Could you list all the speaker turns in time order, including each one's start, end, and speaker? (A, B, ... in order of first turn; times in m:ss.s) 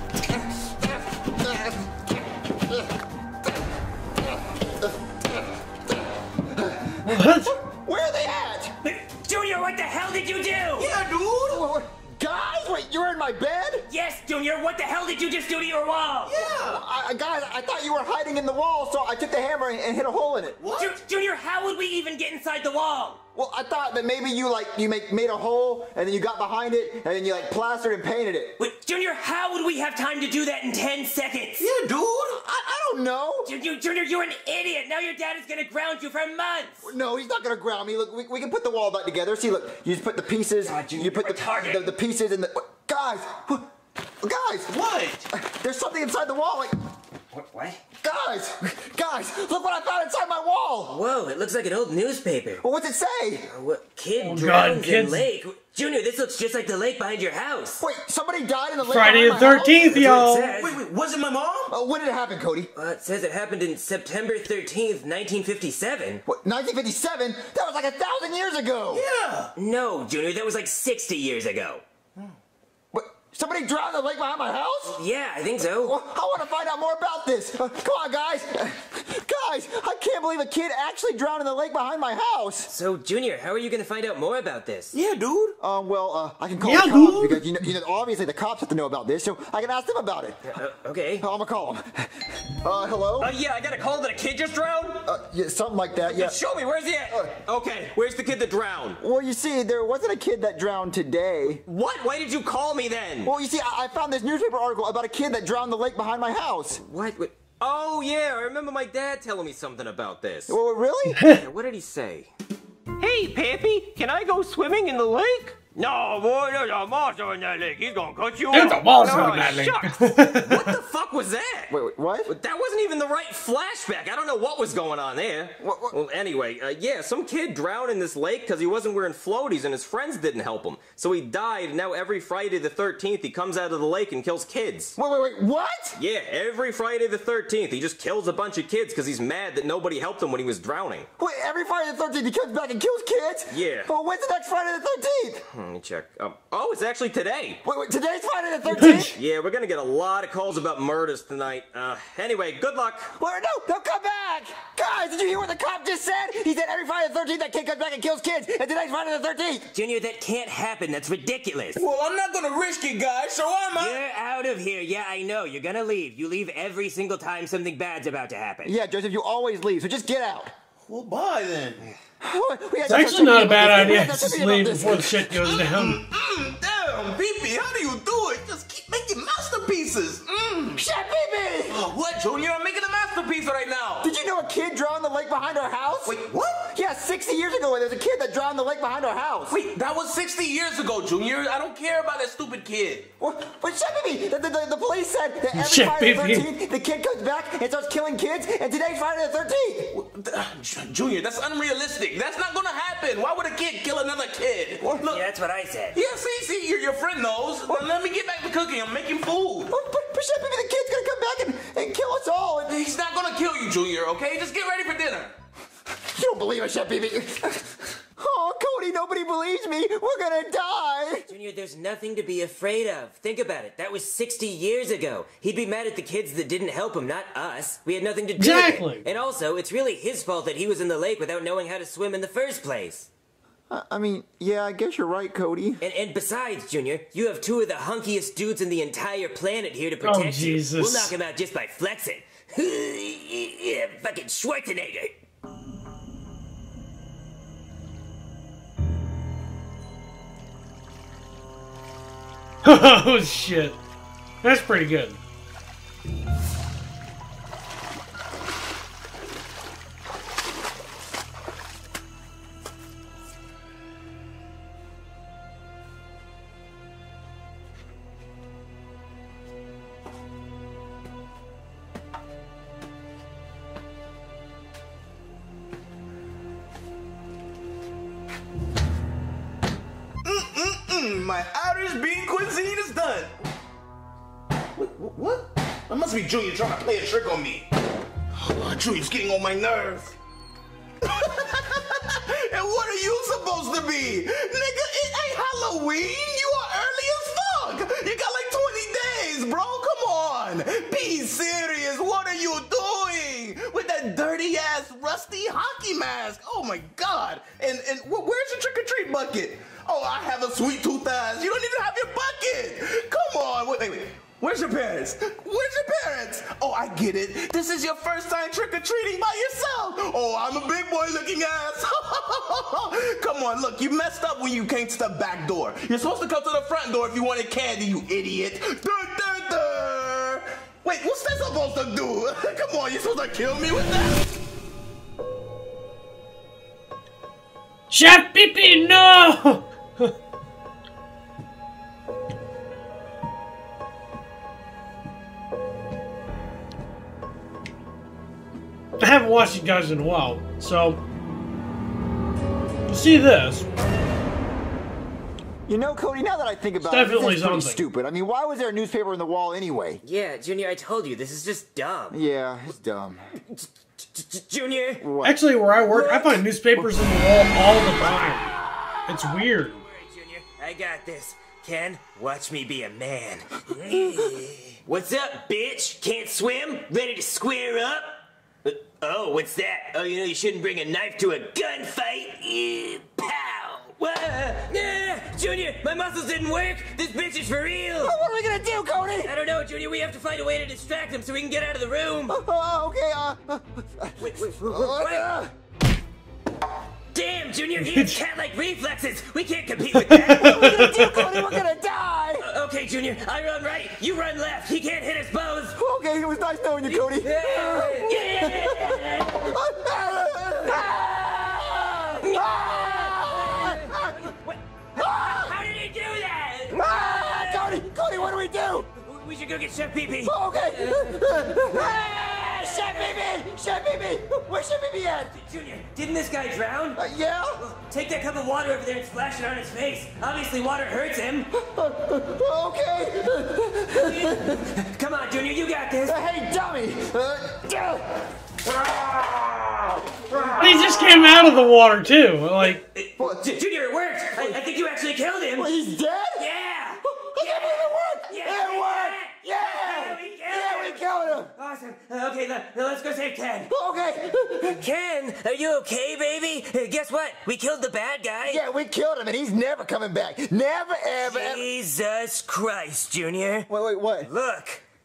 0:00.3-0:02.9 A
0:04.6-0:05.3 A
0:06.5-0:08.7 A
0:07.0-0:07.5 B
0:08.8-0:10.9 C
0:10.8-0:11.6 D
0:11.5-0:13.8 A
0:13.9-0:16.4 C
0:16.2-0:16.8 D
0:16.4-0:20.6 A
0:20.5-0:21.0 D
0:20.8-0:23.2 C
0:23.3-0:28.6 A
0:28.6-0:31.7 C
0:31.6-0:32.4 D
0:32.4-0:33.5 A
0:33.4-0:36.9 C
0:36.8-0:43.7 A
0:40.6-0:41.9 C
0:44.2-0:44.8 A
0:44.7-0:45.3 D
0:45.3-0:46.8 A
0:47.3-0:47.8 C
0:48.0-0:51.0 A
0:50.9-0:52.6 C
0:52.6-0:53.5 A
0:53.4-0:57.8 C
0:54.2-0:55.3 B
0:57.8-1:00.0 A
0:58.8-1:00.5 B
0:59.9-1:00.8 C
0:59.9-1:01.7 D
1:01.7-1:02.7 A
1:02.7-1:06.2 C
1:06.2-1:09.1 A
1:08.9-1:09.5 D
1:09.6-1:11.8 C
1:12.9-1:15.0 A
1:14.9-1:16.0 C
1:15.8-1:22.7 A
1:22.7-1:24.9 C
1:24.9-1:25.6 D
1:25.6-1:30.4 A
1:26.6-1:27.5 B
1:30.5-1:31.2 C
1:31.2-1:33.3 A
1:33.2-1:35.1 E
1:35.0-1:36.4 A
1:36.1-1:39.0 E
1:37.1-1:37.4 A
1:39.0-1:41.6 A
1:41.5-1:43.3 E
1:43.2-1:46.8 A
1:46.7-1:47.5 C
1:47.6-1:48.4 E
1:48.4-1:49.9 C
1:50.0-1:50.4 E
1:50.5-1:51.2 A
1:51.2-1:51.4 B
1:51.2-1:52.3 C
1:53.0-1:54.6 C
1:53.4-1:53.8 E
1:54.6-1:55.7 E
1:55.7-2:01.7 C
1:58.5-2:00.7 B
1:58.9-1:59.5 E
2:00.5-2:01.6 E
2:01.7-2:02.4 A
2:02.3-2:03.7 E
2:02.6-2:04.7 C
2:04.4-2:15.0 E
2:05.6-2:06.0 A
2:15.0-2:16.0 A
2:16.0-2:21.1 E
2:21.2-2:25.4 A
2:23.5-2:23.9 E
2:25.5-2:27.6 E
2:27.6-2:29.2 A
2:28.8-2:29.1 B
2:28.9-2:33.1 E
2:33.2-2:39.7 A
2:39.7-2:41.8 C
2:41.8-2:44.0 D
2:43.8-2:48.8 C
2:48.6-2:50.5 A
2:50.9-2:52.0 D
2:52.2-2:55.2 A
2:52.8-2:56.0 B
2:55.3-3:00.8 D
3:00.7-3:01.9 A
3:01.7-3:04.1 D
3:04.0-3:06.2 A
3:06.1-3:06.7 D
3:06.7-3:09.6 A
3:09.5-3:13.1 D
3:13.2-3:19.9 A
3:15.6-3:16.5 B
3:19.9-3:25.2 D
3:25.1-3:26.0 C
3:25.9-3:29.7 D
3:29.7-3:32.8 A
3:32.7-3:35.3 D
3:36.1-3:41.3 A
3:41.3-3:53.1 C
3:48.4-3:49.1 B
3:53.7-3:55.8 A
3:55.8-4:05.1 C
4:00.0-4:01.1 B
4:12.6-4:13.8 B
4:14.4-4:15.2 B
4:40.2-4:43.3 D
4:44.8-4:47.7 D
4:48.3-4:50.1 D
4:51.0-5:34.3 D
5:37.9-5:40.1 B
5:49.0-5:51.0 B
5:52.9-5:53.7 B
5:55.7-6:00.0 A
5:56.8-5:57.9 B
6:00.0-6:02.2 C
6:02.1-6:03.2 A
6:03.3-6:05.1 C
6:05.0-6:06.9 A
6:05.2-6:08.6 B
6:09.1-6:09.8 B
6:09.7-6:28.2 C
6:28.0-6:29.3 A
6:29.2-6:32.4 C
6:32.3-6:35.5 A
6:34.2-6:35.3 C
6:37.1-6:40.9 C
6:37.8-6:38.2 B
6:39.9-6:41.3 B
6:40.3-6:42.5 A
6:42.4-6:45.8 C
6:45.8-6:54.3 A
6:46.8-6:49.5 C
6:50.6-6:57.9 C
6:54.9-6:55.6 A
6:56.7-6:58.9 A
6:59.0-7:03.3 C
7:00.2-7:05.3 A
7:05.3-7:07.0 C
7:07.0-7:07.6 A
7:07.6-7:11.5 C
7:11.6-7:14.6 A
7:13.9-7:16.2 C
7:16.1-7:20.9 A
7:20.6-7:22.8 B
7:22.7-7:25.7 C
7:23.2-7:23.5 A
7:25.6-7:26.5 A
7:26.4-7:33.7 C
7:27.1-7:31.5 A
7:33.7-7:34.8 A
7:34.7-7:38.6 C
7:38.4-7:41.6 A
7:41.2-7:43.7 C
7:43.7-7:44.3 A
7:44.2-7:44.8 C